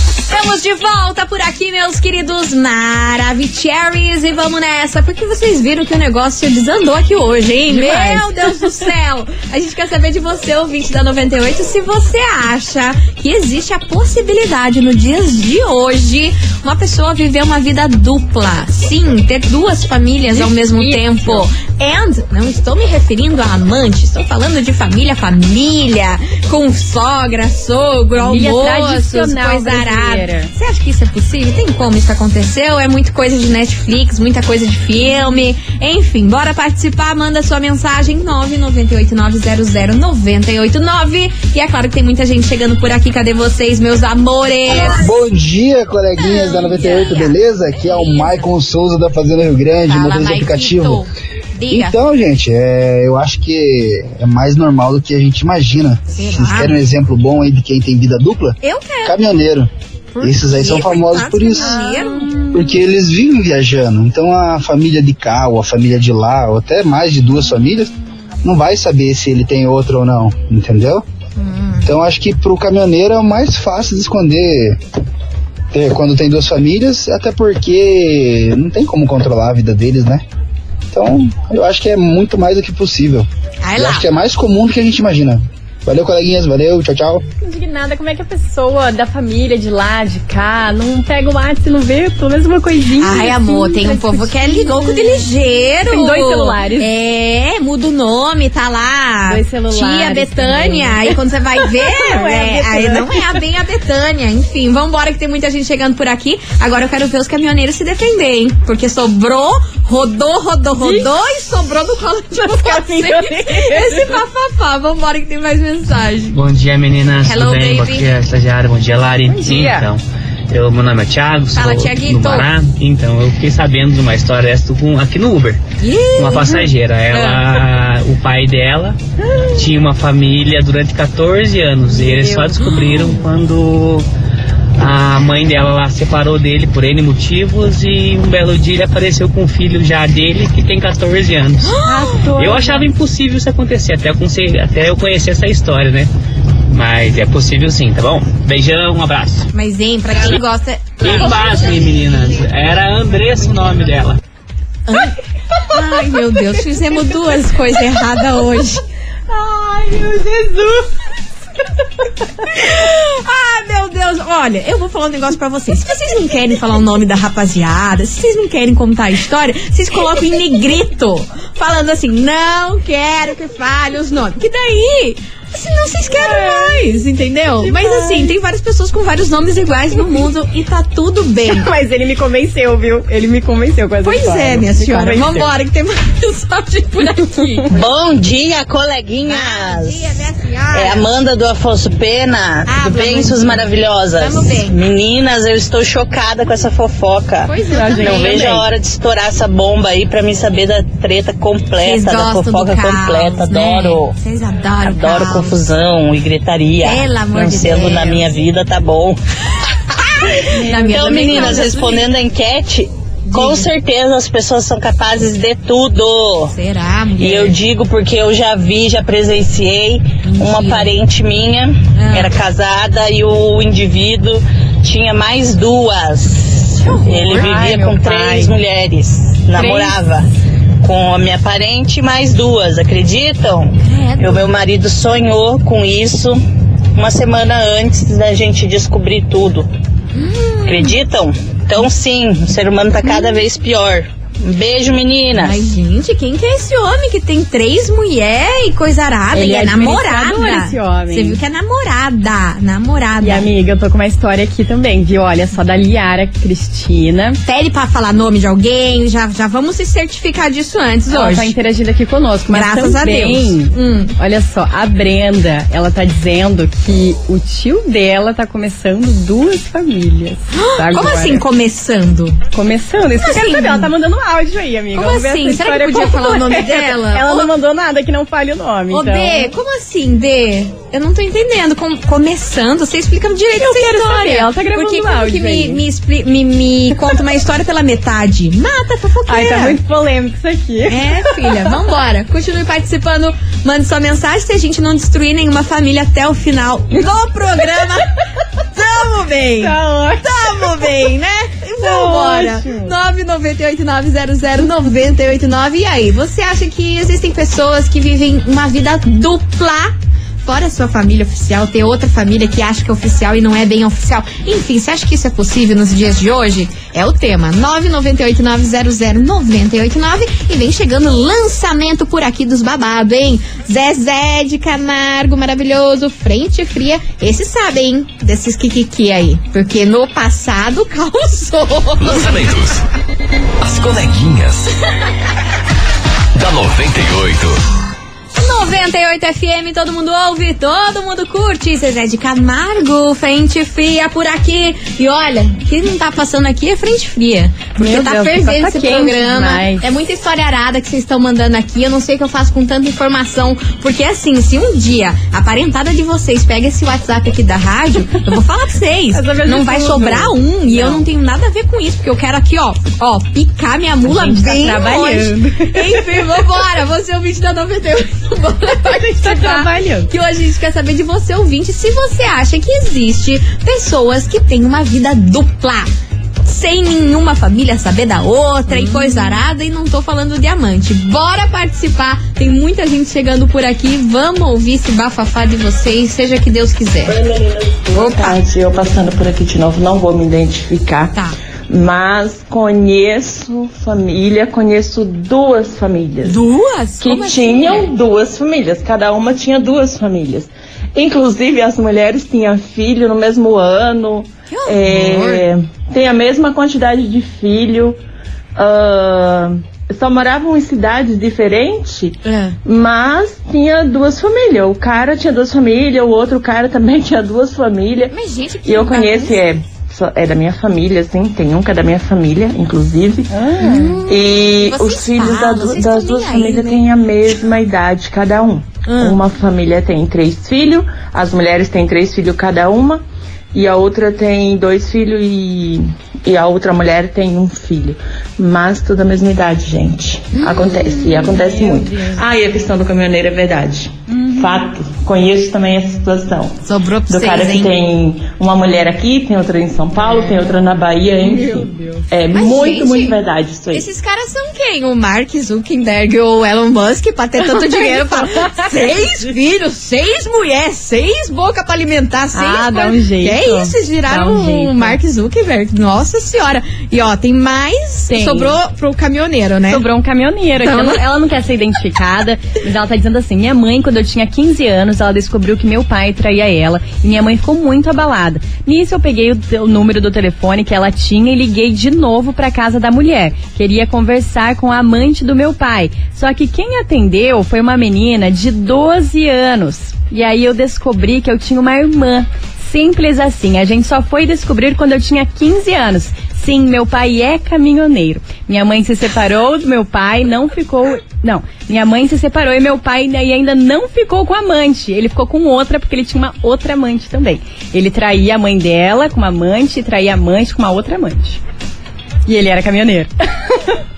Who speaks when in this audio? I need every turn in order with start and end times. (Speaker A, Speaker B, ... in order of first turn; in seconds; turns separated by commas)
Speaker A: 0.3-45.1, Speaker B: 7.7-8.6, Speaker B: 20.3-21.4, Speaker B: 28.2-30.5, Speaker C: 44.9-51.1, Speaker A: 46.2-48.5, Speaker A: 49.9-52.0, Speaker C: 51.7-59.7, Speaker A: 56.1-56.7, Speaker A: 58.6-59.1, Speaker A: 60.1-62.4, Speaker C: 60.2-61.8, Speaker B: 61.6-62.7, Speaker C: 62.5-67.9, Speaker C: 68.4-71.0, Speaker A: 71.4-71.9, Speaker C: 71.8-74.8, Speaker C: 75.7-80.2, Speaker C: 80.9-87.2, Speaker A: 83.6-84.0, Speaker B: 87.4-95.3, Speaker A: 93.0-116.4, Speaker B: 95.8-96.9, Speaker B: 99.3-103.2, Speaker B: 110.8-111.1, Speaker B: 112.4-114.2, Speaker D: 116.3-125.6, Speaker A: 117.2-118.1, Speaker B: 119.3-119.9, Speaker A: 121.5-122.5, Speaker A: 125.8-127.6, Speaker D: 126.2-129.0, Speaker D: 129.6-134.1, Speaker B: 132.0-132.5, Speaker A: 132.7-133.1, Speaker D: 134.8-141.8, Speaker A: 141.6-142.1, Speaker B: 141.8-142.9, Speaker D: 142.3-146.1, Speaker D: 146.7-149.5, Speaker A: 149.5-151.9, Speaker D: 151.0-154.2, Speaker A: 154.9-155.1, Speaker A: 155.7-158.8, Speaker B: 159.3-160.9, Speaker A: 162.5-181.7, Speaker B: 176.1-177.0, Speaker B: 177.6-178.3, Speaker B: 181.5-185.5, Speaker A: 184.0-187.8, Speaker E: 187.7-190.1, Speaker A: 189.2-191.2, Speaker E: 190.7-204.2, Speaker A: 192.7-194.8, Speaker A: 197.4-198.6, Speaker B: 197.7-198.6, Speaker A: 201.8-205.6, Speaker E: 204.8-209.2, Speaker A: 206.8-208.3, Speaker A: 210.0-212.1, Speaker B: 210.5-211.7, Speaker E: 210.9-216.6, Speaker A: 213.3-213.7, Speaker A: 216.5-217.6, Speaker E: 217.2-230.3, Speaker A: 220.3-220.9, Speaker A: 221.9-222.3, Speaker A: 226.8-227.6, Speaker B: 227.2-228.5, Speaker B: 229.5-230.1, Speaker E: 230.8-236.4, Speaker A: 233.8-234.5, Speaker E: 236.9-239.7, Speaker A: 240.1-240.9, Speaker E: 240.6-245.7, Speaker A: 243.0-243.4, Speaker A: 245.3-253.5, Speaker B: 249.3-251.4, Speaker B: 253.2-257.4, Speaker A: 257.4-261.5, Speaker B: 261.1-271.4, Speaker A: 262.5-264.1, Speaker A: 270.5-272.4, Speaker B: 272.5-279.5, Speaker A: 273.2-273.9, Speaker A: 274.9-277.5, Speaker A: 278.9-289.8, Speaker B: 283.5-285.8, Speaker B: 289.3-291.8, Speaker A: 290.9-298.1, Speaker A: 298.7-332.3, Speaker B: 299.6-301.1, Speaker B: 301.8-302.9, Speaker F: 332.0-332.8, Speaker F: 333.6-334.7, Speaker F: 336.3-337.6, Speaker A: 338.4-375.9, Speaker B: 347.8-349.9, Speaker B: 359.1-361.1, Speaker B: 364.0-366.2, Speaker B: 368.8-370.1, Speaker A: 376.4-387.2, Speaker B: 378.7-379.4, Speaker G: 387.0-391.1, Speaker A: 387.9-388.4, Speaker G: 391.7-396.4, Speaker A: 396.2-397.9, Speaker G: 397.0-408.0, Speaker A: 404.5-405.4, Speaker G: 408.5-423.3, Speaker A: 412.2-412.6, Speaker A: 418.1-419.4, Speaker B: 423.3-423.9, Speaker A: 423.6-426.8, Speaker G: 424.1-433.0, Speaker A: 428.9-429.2, Speaker G: 433.5-453.9, Speaker A: 440.4-440.8, Speaker B: 441.0-442.2, Speaker B: 444.1-444.5, Speaker A: 446.6-447.7, Speaker B: 449.9-450.5, Speaker B: 451.2-452.1, Speaker A: 452.3-453.1, Speaker A: 453.7-469.8, Speaker B: 457.4-459.3, Speaker B: 462.3-465.0, Speaker B: 468.1-468.6, Speaker B: 469.7-511.4, Speaker A: 470.6-471.0, Speaker B: 512.3-513.7